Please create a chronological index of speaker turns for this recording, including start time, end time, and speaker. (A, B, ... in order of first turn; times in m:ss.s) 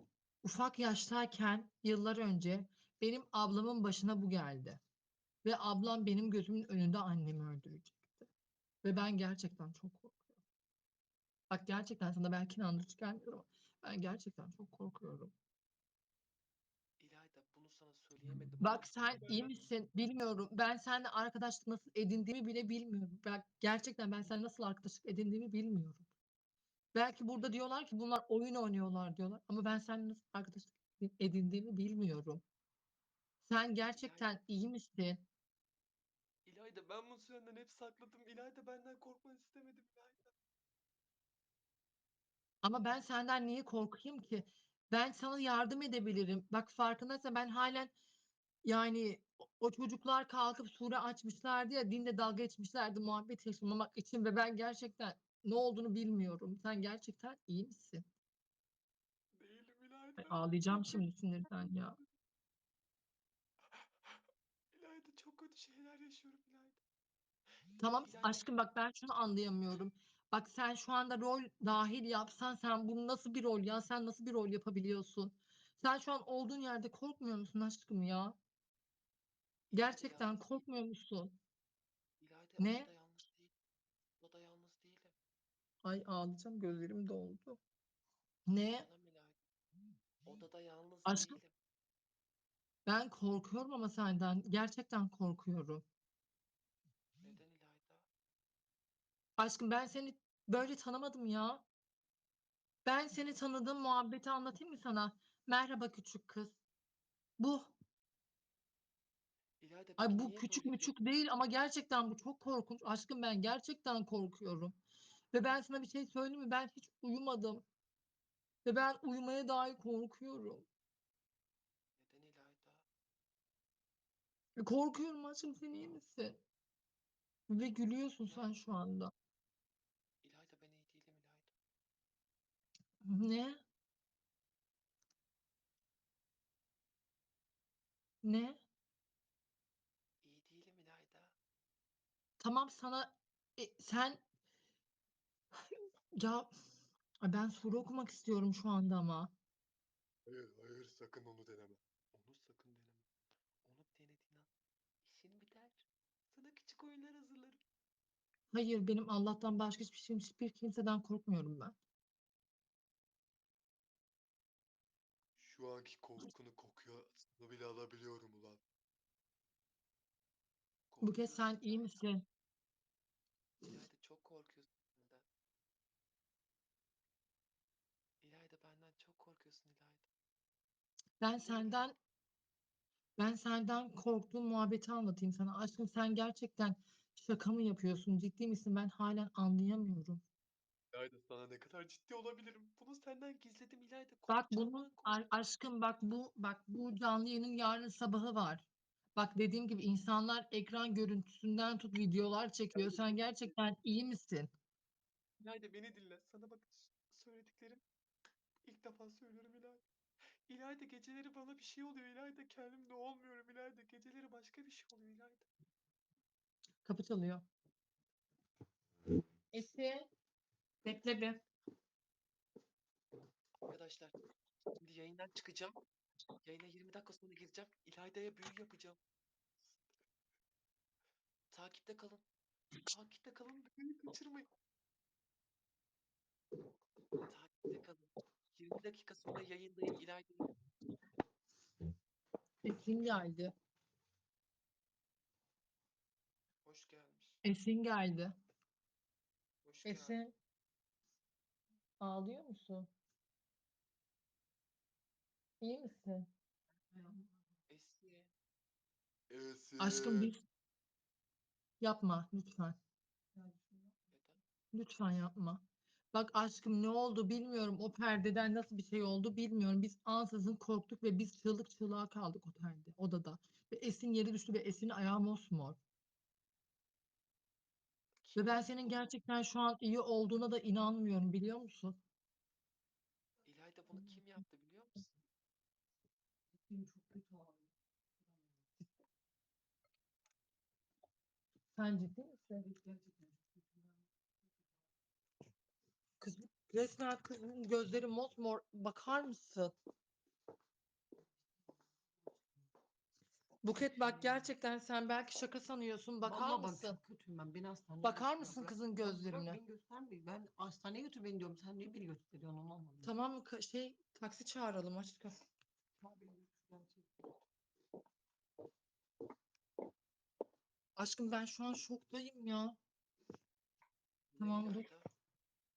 0:00.4-0:04.8 A
0:05.4-0:08.3 A
0:08.8-0:10.4 A
0:11.5-0:15.3 A
0:17.0-0:19.6 B
0:18.6-0:26.1 A
0:26.9-0:32.4 A
0:33.4-0:35.2 A
0:33.9-0:34.3 B
0:36.4-0:40.3 B
0:42.6-0:47.9 A
0:48.6-0:58.0 A
0:59.3-1:01.0 B
1:00.2-1:02.0 A
1:03.6-1:06.8 B
1:07.8-1:08.5 B
1:07.8-1:18.4 A
1:19.7-1:20.7 B
1:19.7-1:21.4 A
1:22.2-1:23.5 B
1:22.6-1:22.9 A
1:24.2-1:25.1 B
1:25.8-1:27.6 A
1:28.5-1:28.9 A
1:28.6-1:29.4 B
1:30.2-1:31.5 B
1:31.0-1:31.4 A
1:32.8-1:35.8 A
1:37.2-1:38.1 B
1:39.4-1:41.6 A
1:42.8-1:46.6 A
1:47.4-1:47.7 A
1:49.6-1:51.0 B
1:50.0-1:54.8 A
1:55.3-1:57.6 A
1:58.6-2:00.6 A
2:02.0-2:02.8 B
2:04.6-2:06.4 A
2:07.5-2:09.1 A
2:08.2-2:08.7 B
2:10.2-2:11.5 B
2:13.0-2:13.6 A
2:18.2-2:18.6 A
2:20.2-2:21.4 B
2:22.4-2:24.2 A
2:25.7-2:26.5 A
2:27.2-2:29.3 A
2:30.3-2:33.0 B
2:33.6-2:34.5 B
2:35.0-2:37.6 B
2:38.5-2:41.8 A
2:45.4-2:48.6 B
2:50.9-2:52.0 B
2:51.0-2:52.2 A
2:53.6-2:55.2 B
2:58.2-3:00.0 B
3:01.2-3:02.0 A
3:01.3-3:01.9 B
3:03.2-3:10.2 A
3:10.9-3:15.2 B
3:14.3-3:24.5 A
3:22.7-3:23.5 B
3:25.4-3:27.8 B
3:28.6-3:29.8 B
3:30.5-3:35.5 B
3:36.8-3:37.4 A
3:39.5-3:40.0 A
3:40.8-3:41.4 A
3:43.7-3:44.1 B
3:44.8-3:45.8 B
3:46.4-3:49.0 B
3:51.5-3:52.2 B
3:52.9-3:54.5 B
3:57.3-4:00.4 B
4:02.6-4:03.5 A
4:06.6-4:07.4 B
4:07.4-4:08.3 A
4:09.6-4:10.2 B
4:09.8-4:10.3 A
4:12.0-4:12.9 A
4:15.6-4:16.3 A
4:17.7-4:18.3 B
4:19.3-4:20.3 B
4:19.8-4:20.4 A
4:21.8-4:22.8 A
4:24.1-4:24.4 B
4:24.7-4:35.8 A
4:38.2-4:39.1 B
4:38.4-4:42.0 A
4:43.4-4:45.1 B
4:46.5-4:48.7 C
4:51.7-4:52.6 A
4:52.6-4:54.1 C
4:56.2-4:59.7 A
5:03.6-5:07.0 A
5:04.0-5:04.4 C
5:06.2-5:13.1 C
5:08.0-5:09.6 A
5:13.0-5:15.3 A
5:16.0-5:17.1 C
5:21.0-5:22.8 A
5:24.4-5:25.1 B
5:24.4-5:24.9 A